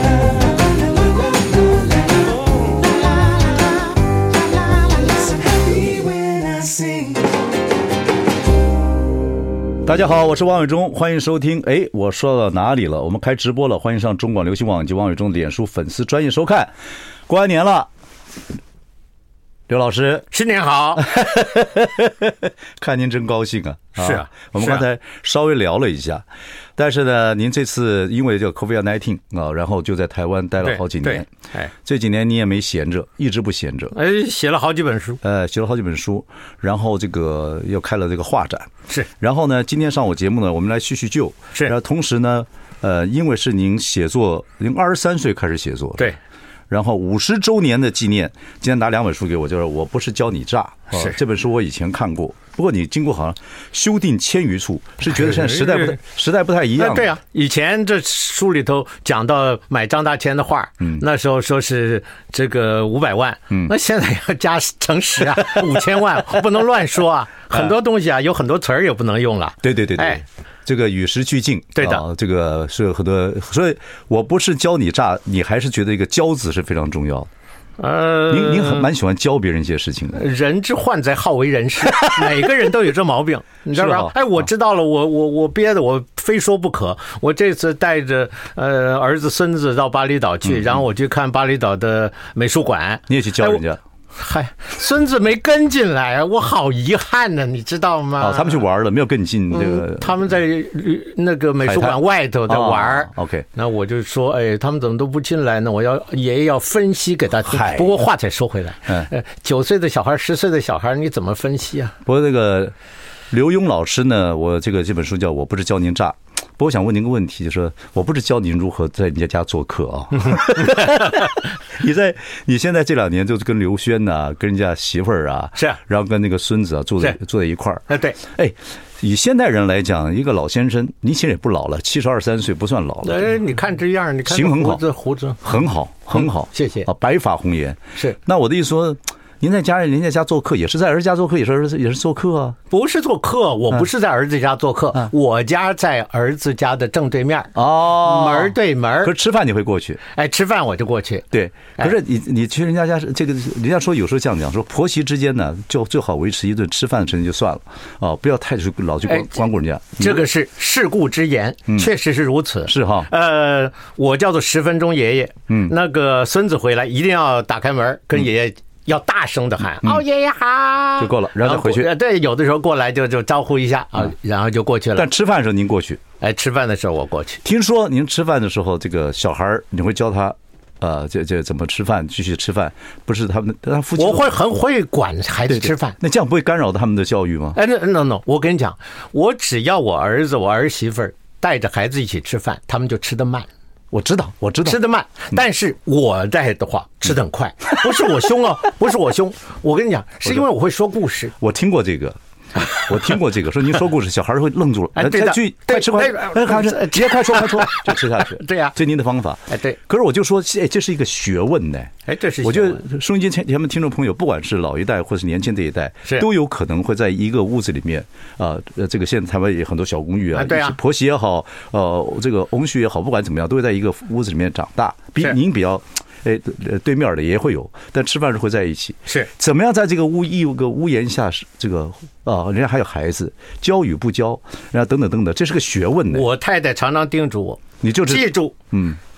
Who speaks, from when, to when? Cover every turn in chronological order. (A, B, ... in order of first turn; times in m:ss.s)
0:09.8-0:16.7 A
0:17.3-0:17.9 A
0:19.7-0:20.3 A
0:20.3-0:21.2 B
0:21.0-0:26.2 A
0:24.0-0:24.8 B
0:26.8-0:34.0 A
0:30.6-0:31.7 B
0:33.9-0:35.2 B
0:35.2-0:46.2 A
0:46.7-0:57.2 A
0:55.1-0:56.0 B
0:56.8-1:10.2 B
1:05.4-1:05.7 A
1:09.6-1:17.3 A
1:11.8-1:12.1 B
1:17.8-1:18.9 B
1:18.3-1:20.2 A
1:20.1-1:33.6 B
1:21.9-1:22.3 A
1:23.7-1:24.3 A
1:30.5-1:30.7 A
1:33.1-1:33.8 A
1:34.2-1:38.6 B
1:38.2-1:40.2 A
1:39.5-1:52.0 B
1:41.6-1:43.5 A
1:47.4-1:48.0 A
1:52.0-1:52.8 A
1:53.3-2:13.4 A
2:00.7-2:01.1 B
2:07.9-2:08.2 B
2:13.0-2:15.4 B
2:14.3-2:14.8 A
2:15.4-2:22.6 A
2:16.2-2:16.9 B
2:22.7-2:29.1 B
2:27.6-2:30.0 A
2:30.1-2:32.0 B
2:31.3-2:40.3 A
2:39.1-2:39.4 B
2:40.0-2:55.1 B
2:42.7-2:43.1 A
2:45.5-2:45.7 A
2:51.0-2:51.9 A
2:55.0-2:56.0 A
2:56.2-2:57.4 B
2:57.4-3:04.4 A
3:04.0-3:06.0 B
3:05.5-3:07.6 A
3:07.6-3:13.5 B
3:13.9-3:14.8 A
3:14.6-3:21.3 B
3:21.4-3:22.2 A
3:22.7-3:56.3 A
3:25.0-3:28.8 B
3:29.5-3:29.8 B
3:32.1-3:32.8 B
3:40.3-3:40.8 B
3:56.1-3:58.6 B
3:57.8-3:59.0 A